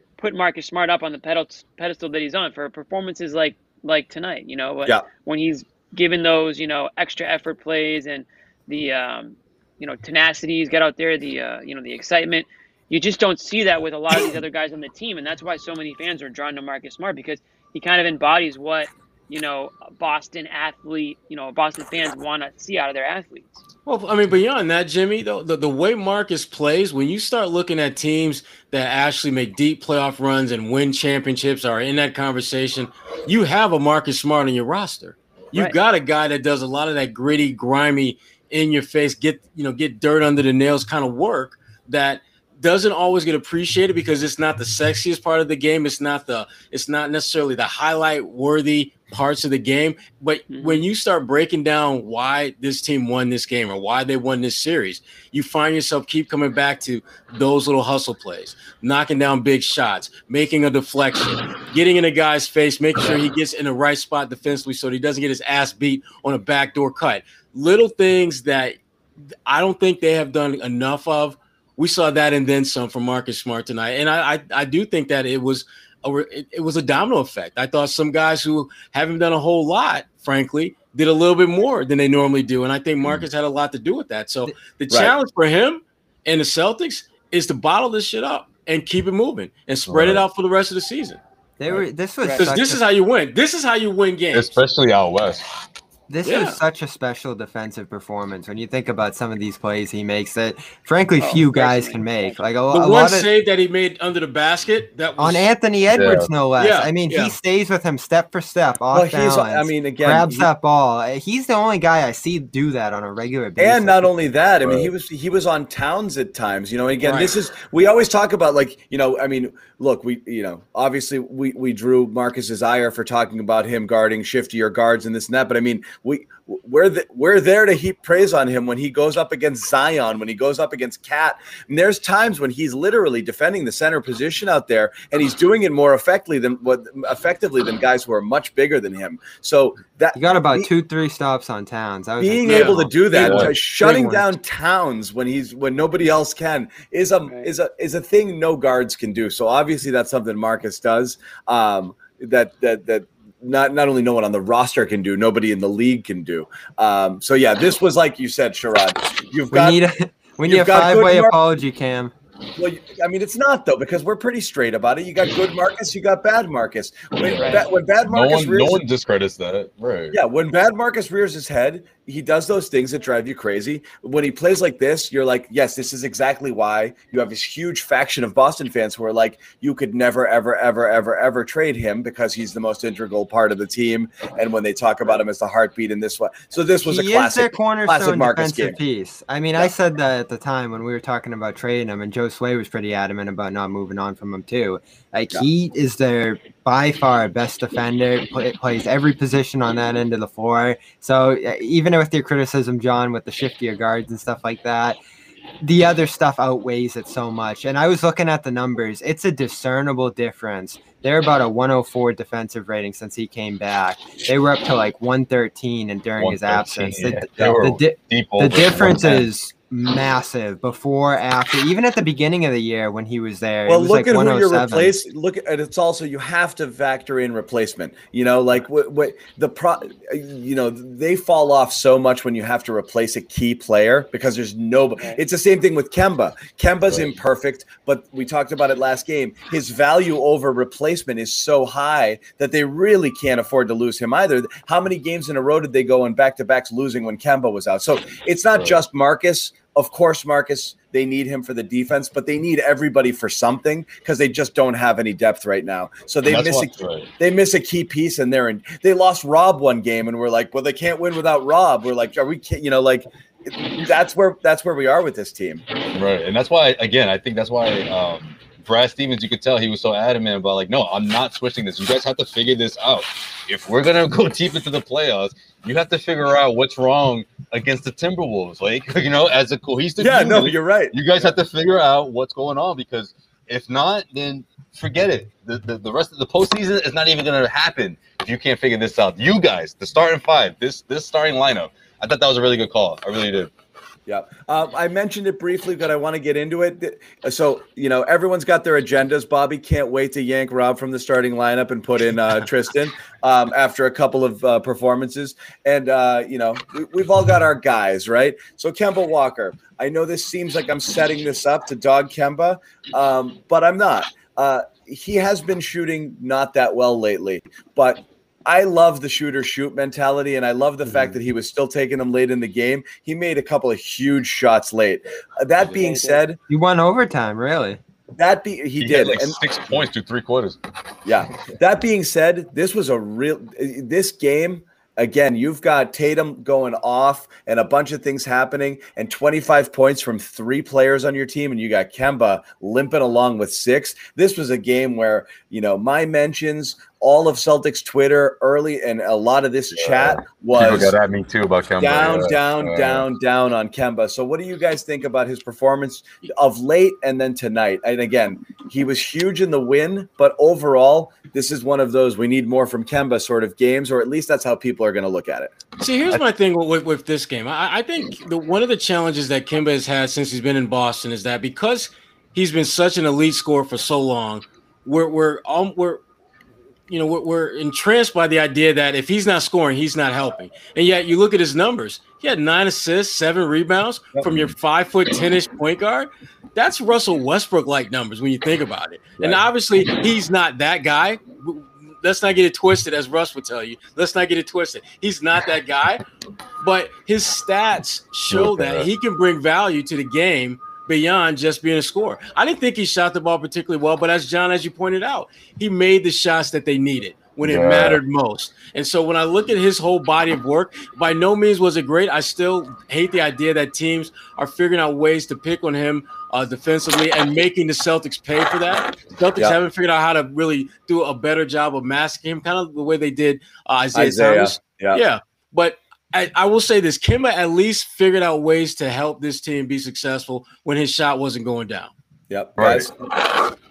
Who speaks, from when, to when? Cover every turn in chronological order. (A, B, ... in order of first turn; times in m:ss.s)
0:00.2-0:23.6 A
0:23.8-1:08.8 B
0:50.5-0:50.8 A
1:09.4-1:31.2 B
1:29.9-1:30.2 C
1:31.6-1:32.8 D
1:32.4-1:34.6 B
1:34.3-1:35.4 C
1:36.1-1:43.3 D
1:36.2-1:36.6 B
1:41.2-1:42.4 A
1:42.7-1:45.5 B
1:45.2-1:54.1 D
1:45.9-1:46.3 C
1:46.6-1:47.4 B
1:48.9-1:50.5 E
1:53.6-2:20.7 E
1:54.6-1:54.9 C
1:57.0-1:57.3 B
2:20.1-2:23.3 D
2:22.2-2:39.8 E
2:22.4-2:23.4 B
2:23.2-2:23.5 C
2:23.8-2:24.1 D
2:39.5-2:42.1 D
2:40.4-2:41.3 E
2:42.6-2:48.8 E
2:47.1-2:50.2 C
2:47.4-2:47.6 A
2:50.1-3:08.8 E
3:06.8-3:25.0 D
3:25.6-3:45.0 D
3:36.2-3:39.2 C
3:43.7-4:25.6 E
4:08.5-4:08.8 C
4:16.2-4:17.1 C
4:25.9-4:53.5 C
4:40.0-4:41.3 E
4:54.1-5:26.4 E
5:25.7-5:26.2 A
5:26.5-5:27.8 D
5:28.2-5:29.4 E
5:28.8-5:30.6 C
5:31.0-5:51.0 E
5:49.7-5:53.1 C
5:51.8-6:05.5 E
6:05.8-6:16.0 B
6:16.9-6:36.0 B
6:36.6-7:11.9 B
6:38.3-6:38.9 C
6:47.4-6:48.0 C
7:03.9-7:05.0 E
7:12.3-7:12.9 E
7:12.6-7:12.9 C